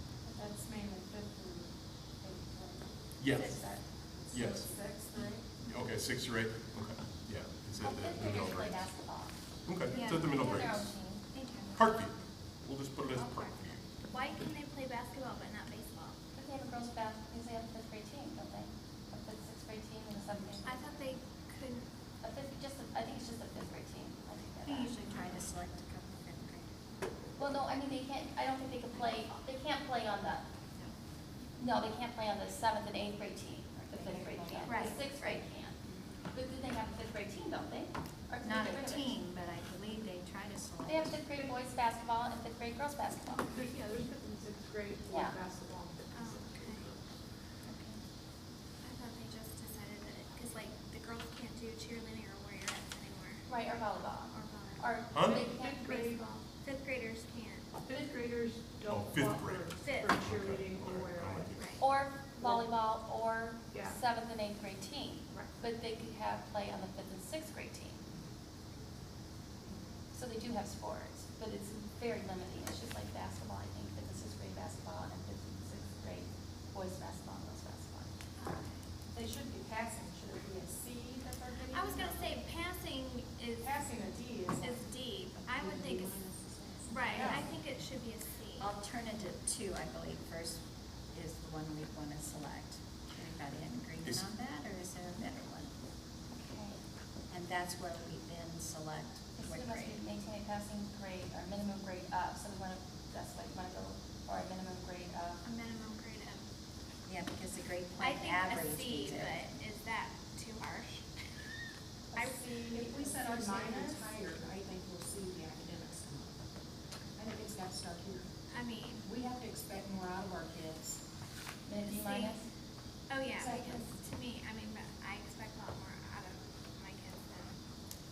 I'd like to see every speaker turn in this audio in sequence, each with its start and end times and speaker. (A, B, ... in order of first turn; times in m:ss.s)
0:00.2-0:01.6 A
0:02.2-0:02.7 A
0:03.2-0:04.7 B
0:03.3-0:04.1 C
0:03.6-0:04.9 A
0:05.1-0:05.4 C
0:05.6-0:08.9 B
0:07.8-0:11.3 D
0:09.7-0:10.9 B
0:09.9-0:10.4 E
0:11.3-0:11.9 E
0:11.7-0:13.8 B
0:14.1-0:16.2 E
0:16.3-0:20.9 D
0:20.2-0:20.7 F
0:20.6-0:21.9 E
0:22.2-0:25.0 D
0:24.6-0:26.7 F
0:27.4-0:30.5 D
0:31.6-0:39.2 D
0:33.8-0:35.4 F
0:34.7-0:35.1 E
0:38.4-0:41.2 F
0:40.8-0:43.6 D
0:43.5-0:46.4 G
0:45.1-0:45.4 D
0:46.1-0:47.0 E
0:47.6-0:48.0 D
0:48.8-0:53.6 E
0:53.5-0:55.9 D
0:54.3-0:57.8 E
0:55.1-0:55.5 B
0:55.2-0:56.3 G
0:57.9-1:01.6 G
0:57.9-0:58.2 D
0:58.9-1:01.8 B
0:59.8-1:00.2 E
1:01.6-1:01.9 E
1:01.8-1:08.0 D
1:03.7-1:04.0 G
1:10.1-1:18.1 D
1:18.4-1:18.9 E
1:19.2-1:22.3 A
1:21.7-1:23.9 E
1:23.8-1:24.6 A
1:24.5-1:26.2 E
1:25.5-1:27.5 C
1:26.9-1:28.7 E
1:28.6-1:30.6 F
1:31.1-1:35.7 F
1:34.0-1:34.3 B
1:36.3-1:36.8 D
1:37.3-1:40.0 F
1:39.4-1:45.4 D
1:45.4-1:46.4 E
1:47.1-1:49.4 F
1:48.0-1:51.1 E
1:52.1-1:56.4 C
1:52.1-1:53.9 E
1:57.2-1:58.3 C
1:58.5-1:59.1 E
1:59.0-2:01.0 C
2:01.6-2:02.5 D
2:01.8-2:02.4 E
2:03.1-2:07.5 E
2:03.4-2:03.9 D